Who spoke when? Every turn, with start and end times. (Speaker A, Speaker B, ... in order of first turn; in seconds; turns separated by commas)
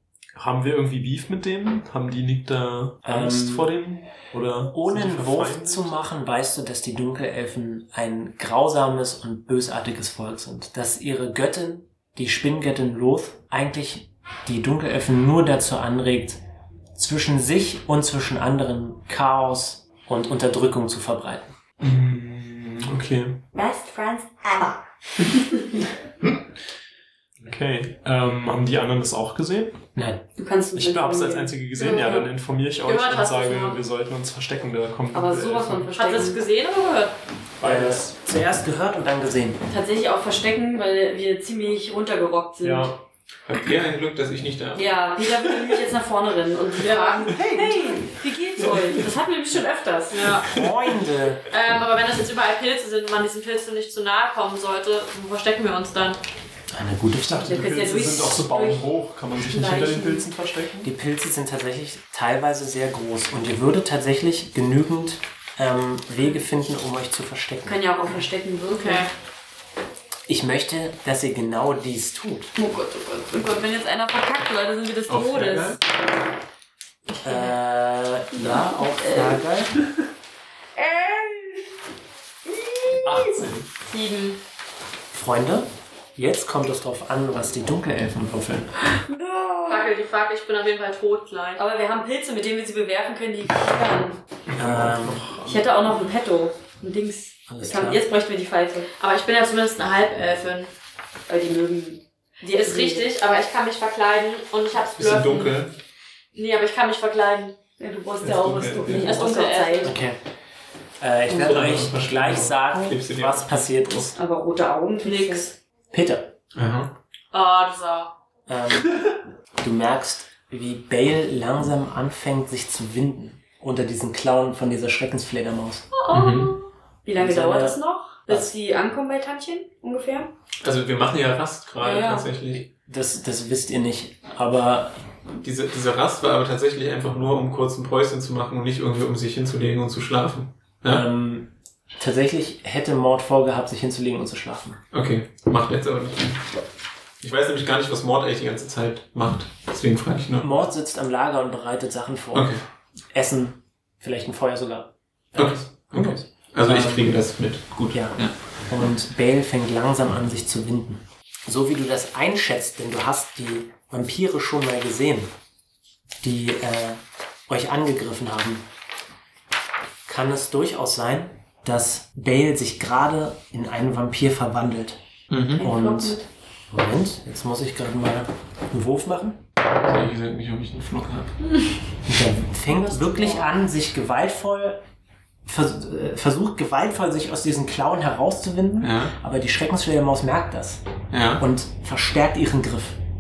Speaker A: 0.3-6.0, Speaker B: 3.0-3.7, Speaker B: 4.7-16.4, Speaker B: 16.9-21.5, Speaker A: 21.8-23.4, Speaker C: 23.5-25.9, Speaker A: 27.4-29.8, Speaker B: 29.9-30.2, Speaker C: 30.4-31.5, Speaker A: 30.7-35.9, Speaker D: 31.8-32.3, Speaker D: 32.9-33.8, Speaker C: 35.1-36.4, Speaker D: 36.0-37.2, Speaker A: 37.6-38.1, Speaker B: 37.6-39.6, Speaker C: 39.7-42.9, Speaker A: 42.6-43.0, Speaker E: 43.5-45.3, Speaker C: 44.8-50.4, Speaker D: 46.8-47.5, Speaker E: 48.6-48.9, Speaker D: 50.1-50.6, Speaker B: 50.5-51.4, Speaker D: 51.5-56.2, Speaker B: 56.7-57.6, Speaker A: 57.3-60.9, Speaker C: 57.4-58.8, Speaker C: 59.4-60.3, Speaker B: 60.8-67.8, Speaker C: 67.7-69.1, Speaker D: 68.7-69.1, Speaker B: 70.3-72.5, Speaker C: 72.6-75.8, Speaker E: 75.1-75.8, Speaker B: 77.2-79.8, Speaker C: 78.3-79.4, Speaker C: 80.8-81.7, Speaker C: 82.5-83.5, Speaker B: 83.0-83.6, Speaker D: 83.9-84.4, Speaker B: 85.1-88.7, Speaker C: 88.9-89.9, Speaker D: 89.7-91.6, Speaker C: 91.6-94.2, Speaker A: 94.5-95.8, Speaker B: 94.6-95.3, Speaker C: 95.4-98.9, Speaker B: 97.5-98.0, Speaker D: 99.0-100.7, Speaker C: 101.3-103.1, Speaker D: 102.5-105.5, Speaker E: 105.0-105.7, Speaker D: 106.3-107.6, Speaker C: 107.8-110.0, Speaker E: 108.2-109.1, Speaker D: 108.9-110.0, Speaker B: 109.8-110.2, Speaker B: 111.0-114.1, Speaker E: 111.3-114.1, Speaker C: 114.2-115.5, Speaker D: 115.0-115.5, Speaker B: 115.9-116.3, Speaker E: 116.5-116.9, Speaker D: 117.3-118.1, Speaker B: 118.5-119.0, Speaker B: 119.6-125.9, Speaker D: 126.0-126.6, Speaker E: 126.1-126.5, Speaker C: 127.0-130.3, Speaker B: 127.2-128.5, Speaker E: 130.6-132.7, Speaker C: 131.8-132.3, Speaker B: 132.8-135.0, Speaker E: 135.4-141.1, Speaker B: 140.9-144.8, Speaker E: 144.9-146.4, Speaker E: 147.2-150.5, Speaker B: 150.4-152.6, Speaker E: 152.3-152.6, Speaker B: 153.1-157.2, Speaker E: 155.4-158.3, Speaker B: 157.9-165.3, Speaker B: 166.2-168.7, Speaker B: 170.1-175.0, Speaker E: 175.3-175.7, Speaker B: 175.6-176.2, Speaker C: 175.6-176.3, Speaker B: 176.7-179.4, Speaker E: 179.8-181.4, Speaker B: 182.1-184.8, Speaker C: 182.9-183.4, Speaker B: 185.4-190.8, Speaker E: 188.8-189.1, Speaker E: 191.1-191.4, Speaker B: 191.4-193.0